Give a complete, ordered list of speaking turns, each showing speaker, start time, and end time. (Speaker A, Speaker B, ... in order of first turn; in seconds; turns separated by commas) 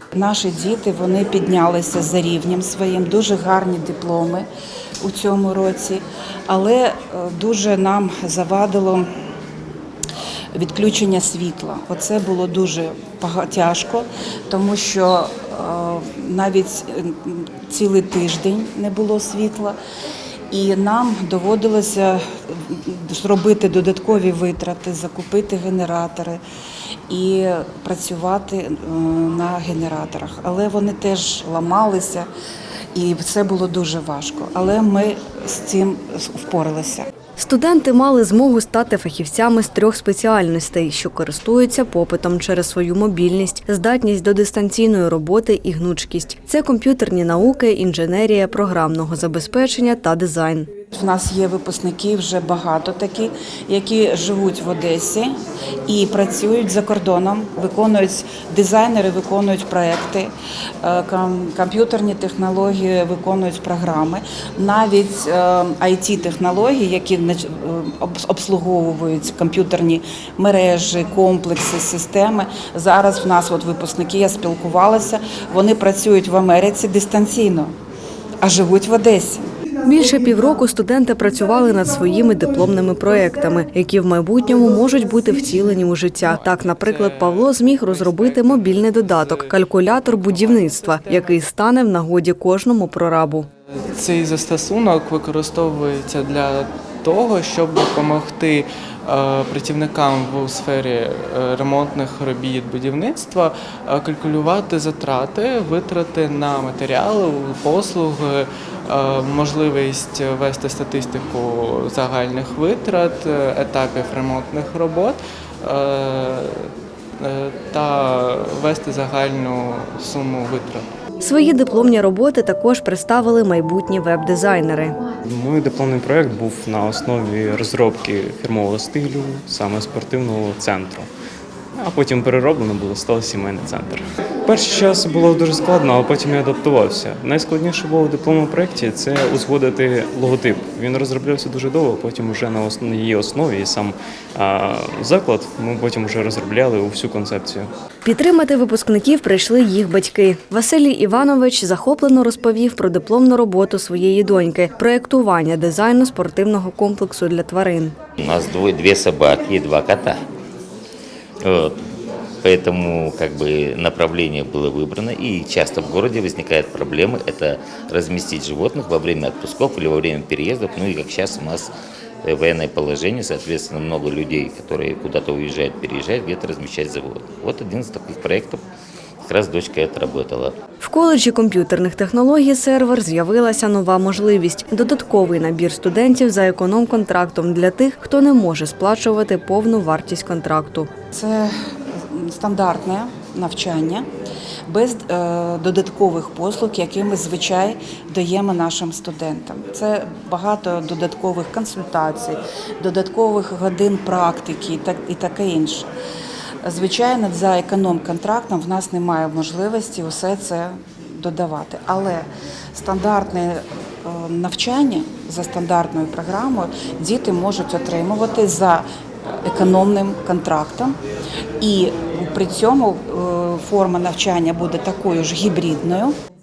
Speaker A: 0.1-4.5, Speaker A: 5.0-9.1, Speaker A: 10.5-19.8, Speaker A: 20.5-26.4, Speaker A: 27.1-32.3, Speaker A: 32.9-37.1, Speaker B: 37.4-50.7, Speaker A: 50.9-55.3, Speaker A: 55.9-60.3, Speaker A: 60.8-77.7, Speaker A: 78.4-79.5, Speaker B: 79.8-93.5, Speaker C: 86.2-91.3, Speaker C: 93.9-120.9, Speaker B: 121.2-125.0, Speaker D: 125.2-131.1, Speaker D: 131.8-147.7, Speaker B: 148.0-157.9, Speaker E: 158.2-160.2, Speaker E: 161.4-161.8, Speaker E: 162.4-178.6, Speaker E: 179.2-180.6, Speaker B: 180.8-190.9, Speaker A: 191.1-191.5, Speaker A: 192.1-194.1, Speaker A: 194.7-205.9, Speaker A: 206.6-220.9, Speaker A: 221.6-226.2